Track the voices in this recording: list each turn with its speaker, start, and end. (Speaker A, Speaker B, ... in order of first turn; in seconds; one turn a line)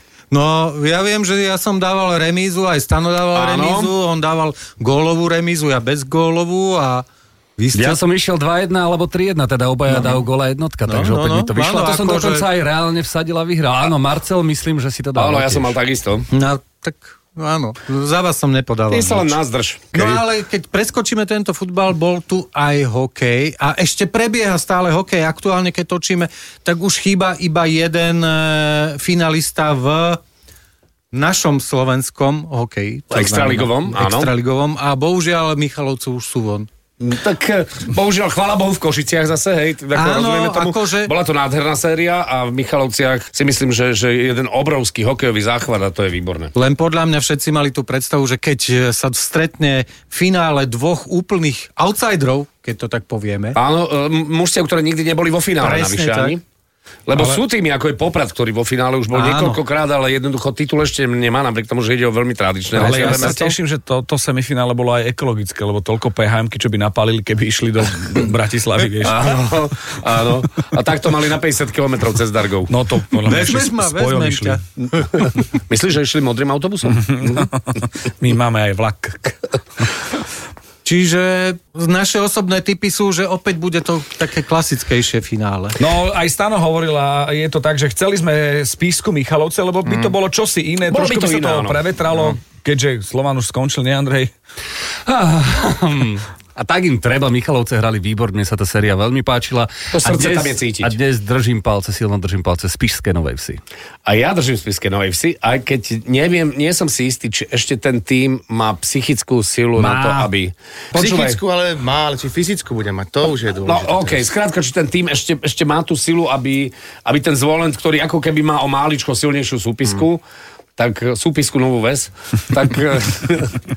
Speaker A: 0.3-7.0
Speaker B: 3.3-3.9
Speaker A: 7.6-8.0
Speaker C: 7.7-15.8
Speaker A: 9.9-10.2
Speaker A: 10.8-12.5
Speaker B: 15.2-16.3
Speaker A: 16.3-19.4
Speaker B: 18.9-20.2
Speaker A: 19.9-30.2
Speaker A: 31.1-36.7
Speaker B: 33.1-34.3
Speaker B: 37.0-46.5
Speaker A: 39.9-41.1
Speaker A: 46.5-53.6
Speaker B: 53.5-56.4
Speaker A: 55.6-56.4
Speaker B: 57.1-63.4
Speaker A: 59.1-59.6
Speaker D: 62.7-69.2
Speaker A: 62.8-63.5
Speaker B: 69.0-72.7
Speaker D: 72.7-74.6
Speaker A: 73.2-74.8
Speaker B: 75.7-77.0
Speaker D: 77.0-79.6
Speaker A: 80.8-85.8
Speaker D: 85.8-94.3
Speaker E: 89.8-90.1
Speaker B: 90.9-91.8
Speaker C: 95.0-103.6
Speaker B: 99.9-101.0
Speaker B: 104.0-111.4
Speaker C: 109.8-110.3
Speaker E: 110.9-114.3
Speaker B: 113.6-120.2
Speaker B: 120.8-123.6